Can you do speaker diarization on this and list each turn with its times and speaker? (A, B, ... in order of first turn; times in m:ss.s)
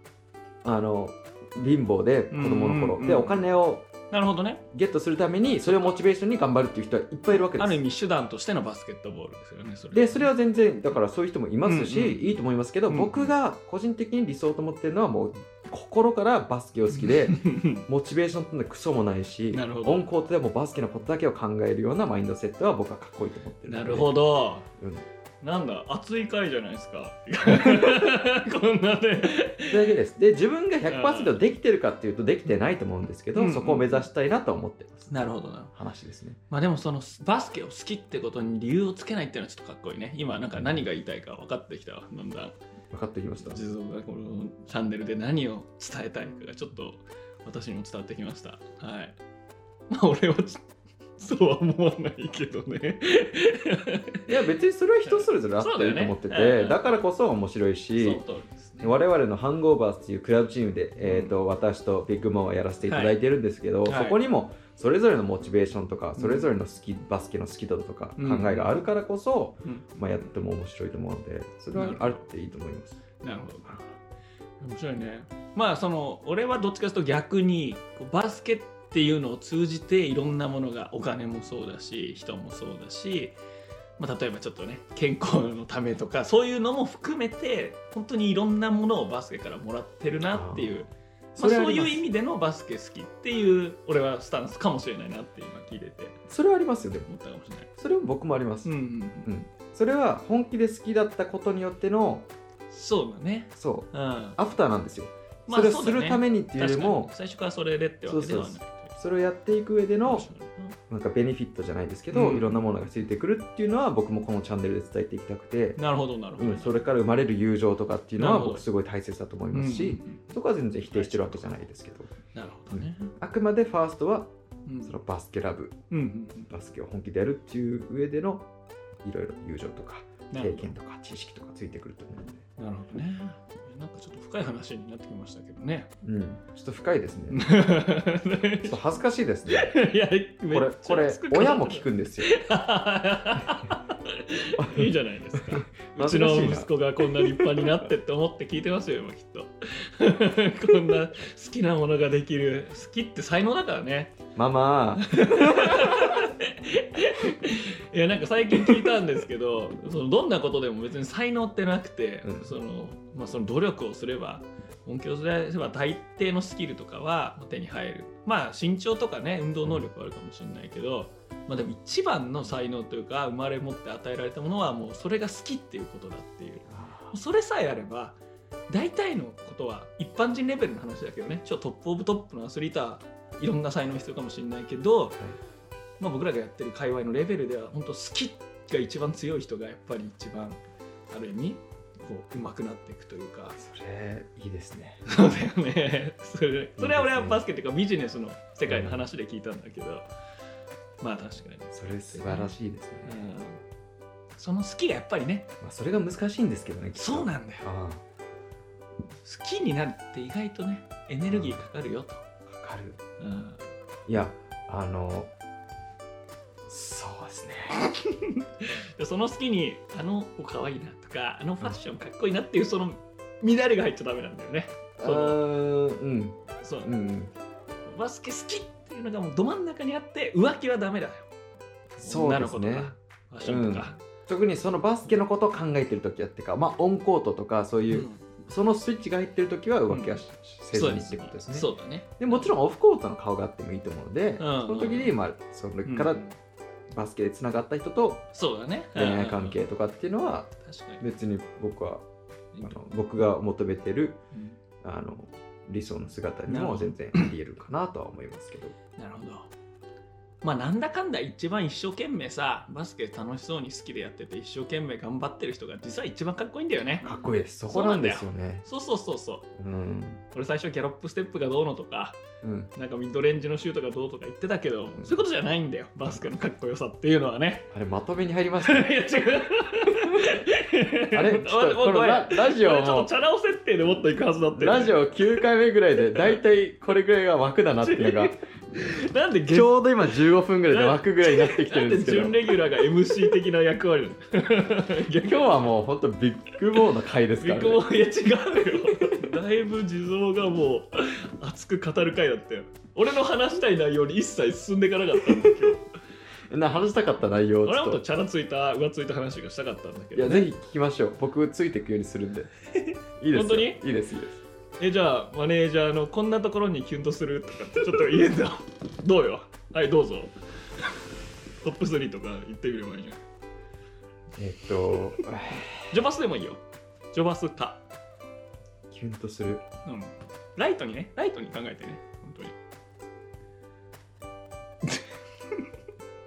0:00.6-0:03.9 A
0:02.3-0:03.4 B
0:04.1-0:04.6 B
0:04.7-0:07.8 A
0:05.6-0:06.0 B
0:07.5-0:10.3 B
0:09.9-0:24.2 A
0:11.6-0:13.3 B
0:16.9-0:17.9 B
0:19.5-0:20.0 B
0:23.7-0:24.7 B
0:24.8-0:25.1 A
0:25.4-0:29.9 B
0:29.7-0:36.4 A
0:30.9-0:31.4 B
0:33.4-0:34.1 B
0:35.1-0:35.7 B
0:36.5-0:42.6 B
0:42.9-0:43.6 A
0:43.4-0:49.2 B
0:49.9-0:50.6 B
0:51.2-0:54.3 B
0:54.3-0:58.2 A
0:55.0-0:57.0 B
0:58.0-0:59.0 B
0:58.8-1:13.0 A
1:01.0-1:01.4 B
1:02.9-1:03.2 B
1:03.8-1:04.2 B
1:06.2-1:06.5 B
1:08.2-1:08.8 B
1:11.8-1:12.2 B
1:13.2-1:13.8 B
1:14.6-1:23.4 B
1:24.0-1:36.2 B
1:30.3-1:30.8 A
1:31.4-1:32.0 A
1:36.3-1:37.1 A
1:37.1-1:37.7 B
1:37.8-1:38.7 A
1:38.6-1:39.3 B
1:39.2-1:42.3 A
1:42.7-1:44.4 B
1:43.6-1:47.1 A
1:45.5-1:49.0 B
1:48.1-1:50.3 A
1:50.0-1:50.8 B
1:50.9-1:55.8 A
1:52.1-1:52.6 B
1:55.8-1:56.8 B
1:56.4-2:02.1 A
1:58.2-1:58.6 B
1:59.5-2:00.4 B
2:00.9-2:01.7 B
2:02.3-2:03.1 B
2:02.7-2:04.3 A
2:04.7-2:05.0 B
2:04.8-2:05.8 A
2:05.9-2:06.5 B
2:06.5-2:08.5 A
2:09.0-2:12.4 A
2:10.3-2:10.7 B
2:12.6-2:15.9 B
2:16.0-2:17.4 A
2:17.3-2:18.8 B
2:18.6-2:19.8 A
2:19.5-2:34.2 B
2:20.5-2:22.3 A
2:24.6-2:27.8 A
2:34.4-2:36.3 A
2:35.0-2:58.2 B
2:42.2-2:42.5 A
2:56.7-2:57.2 A
2:58.7-3:05.2 B
3:06.0-3:13.6 B
3:13.6-3:15.1 A
3:15.1-3:20.1 B
3:16.8-3:17.4 A
3:18.7-3:19.0 A
3:21.0-3:22.5 B
3:21.7-3:23.2 A
3:23.0-3:23.6 B
3:24.4-3:25.5 B
3:25.6-3:28.0 A
3:27.0-3:27.7 B
3:29.2-3:32.2 B
3:31.3-3:31.6 A
3:32.5-3:33.0 A
3:33.2-3:33.6 B
3:34.1-3:35.3 A
3:36.7-3:37.8 A
3:37.8-3:45.4 B
3:45.0-3:47.3 A
3:46.6-3:46.9 B
3:47.9-3:51.3 B
3:52.0-4:01.7 A
3:52.0-3:54.0 B
3:57.9-3:58.3 B
3:59.9-4:00.2 B
4:00.7-4:02.5 B
4:02.2-4:06.2 A
4:04.4-4:05.2 B
4:05.8-4:06.3 B
4:06.9-4:08.2 A
4:08.3-4:09.6 B
4:09.0-4:12.0 A
4:10.6-4:11.0 B
4:12.6-4:14.2 A
4:14.8-4:18.8 A
4:16.5-4:17.3 B
4:19.0-4:19.5 B
4:20.4-4:27.1 B
4:27.0-4:28.7 A
4:27.7-4:29.5 B
4:29.6-4:30.2 A
4:30.3-4:32.2 B
4:32.4-4:32.7 A
4:32.8-4:37.7 B
4:37.7-4:38.9 A
4:38.6-4:45.4 B
4:40.0-4:40.4 A
4:41.1-4:43.1 A
4:44.6-4:48.4 A
4:46.2-4:46.4 B
4:47.8-4:49.8 B
4:49.5-4:52.5 A
4:50.7-4:55.5 B
4:55.2-4:57.8 A
4:57.4-5:05.9 B
5:06.5-5:08.0 A
5:07.6-5:10.5 B
5:10.2-5:12.5 A
5:12.7-5:13.8 B
5:13.2-5:14.4 A
5:14.8-5:21.1 B
5:21.6-5:23.2 B
5:24.4-5:25.9 A
5:25.9-5:26.6 B
5:27.1-5:27.8 B
5:28.9-5:29.6 A
5:29.8-5:32.6 B
5:34.8-5:35.7 B